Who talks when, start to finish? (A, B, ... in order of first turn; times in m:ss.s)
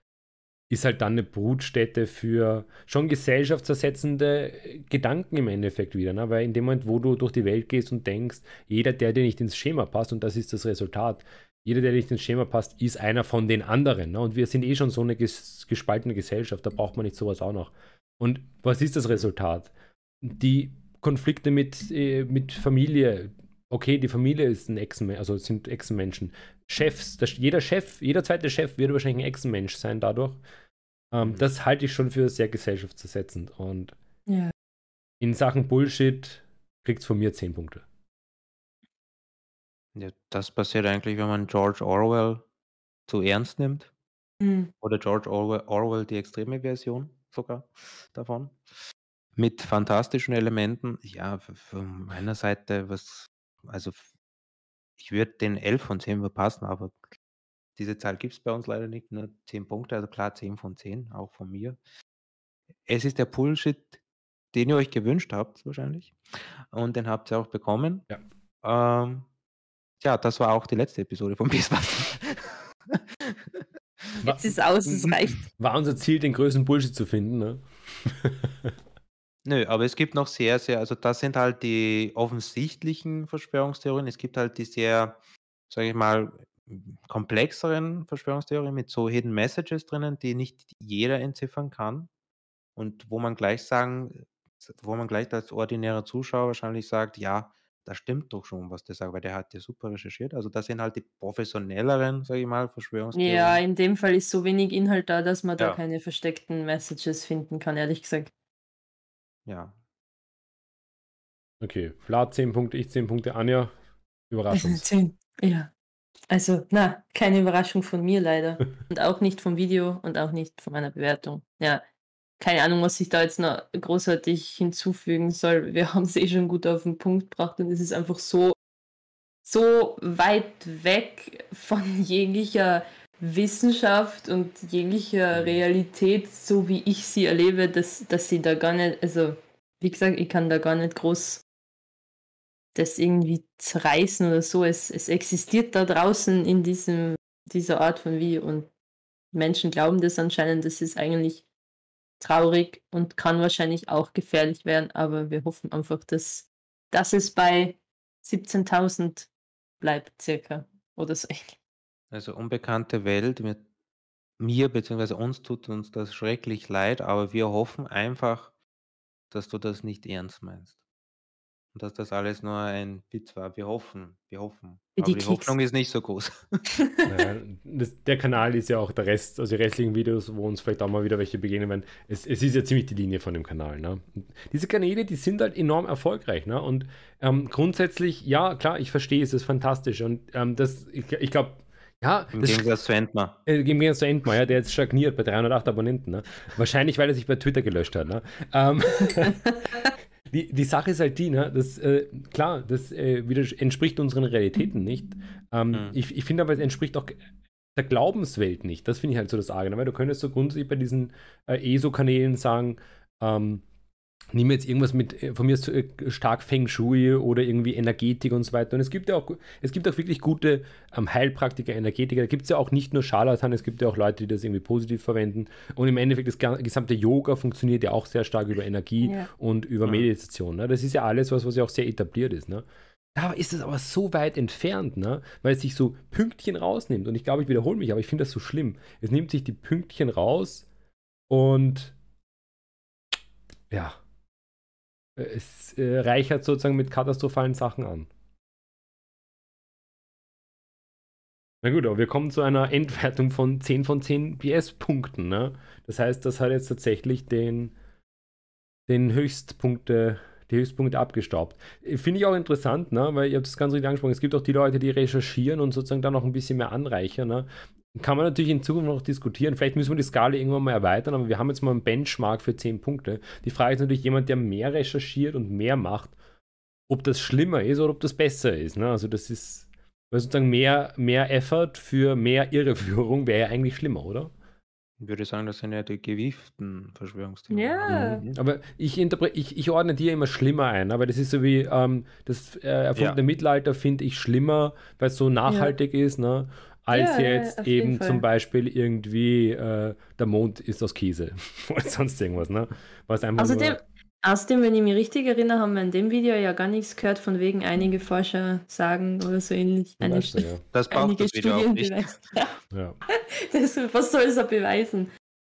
0:00.7-0:19.7 A
0:20.2-0:30.4 A
0:31.1-0:33.9 A
0:35.2-0:37.8 A
0:39.9-0:42.4 B
0:43.1-0:43.9 B
0:44.4-0:44.7 C
0:44.8-0:48.6 B
0:49.4-0:54.1 B
0:55.0-0:57.0 B
0:57.8-1:01.8 B
1:02.9-1:04.0 B
1:04.5-1:06.1 B
1:06.7-1:08.0 B
1:08.6-1:09.2 B
1:10.0-1:14.2 B
1:14.2-1:15.4 C
1:14.2-1:18.7 A
1:19.4-1:25.2 B
1:25.7-1:32.1 B
1:32.8-1:43.6 B
1:43.1-1:48.3 C
1:49.5-1:49.7 B
1:51.6-1:53.7 A
1:54.3-1:54.8 A
1:54.5-1:55.7 C
1:56.3-2:01.8 C
2:02.4-2:08.6 C
2:09.4-2:21.4 C
2:22.7-2:28.7 C
2:29.3-2:31.4 C
2:32.2-2:39.3 C
2:39.8-2:41.5 C
2:42.1-2:43.6 B
2:44.4-2:48.5 B
2:49.3-2:50.8 B
2:51.7-2:56.6 B
2:55.0-2:55.5 C
2:57.1-3:12.7 A
3:12.3-3:13.4 B
3:13.5-3:19.5 A
3:20.3-3:27.2 A
3:27.7-3:33.6 A
3:34.3-4:00.7 A
3:49.0-3:49.3 C
4:01.3-4:02.0 A
4:03.7-4:04.0 A
4:05.2-4:08.1 A
4:11.6-4:17.7 A
4:18.9-4:36.2 A
4:36.9-4:44.3 A
4:45.0-4:48.4 B
4:47.5-4:48.2 C
4:47.9-5:03.8 A
4:55.4-4:55.7 C
4:56.9-4:58.2 C
5:03.4-5:12.5 C
5:10.0-5:10.6 A
5:10.7-5:12.4 B
5:13.1-5:15.1 C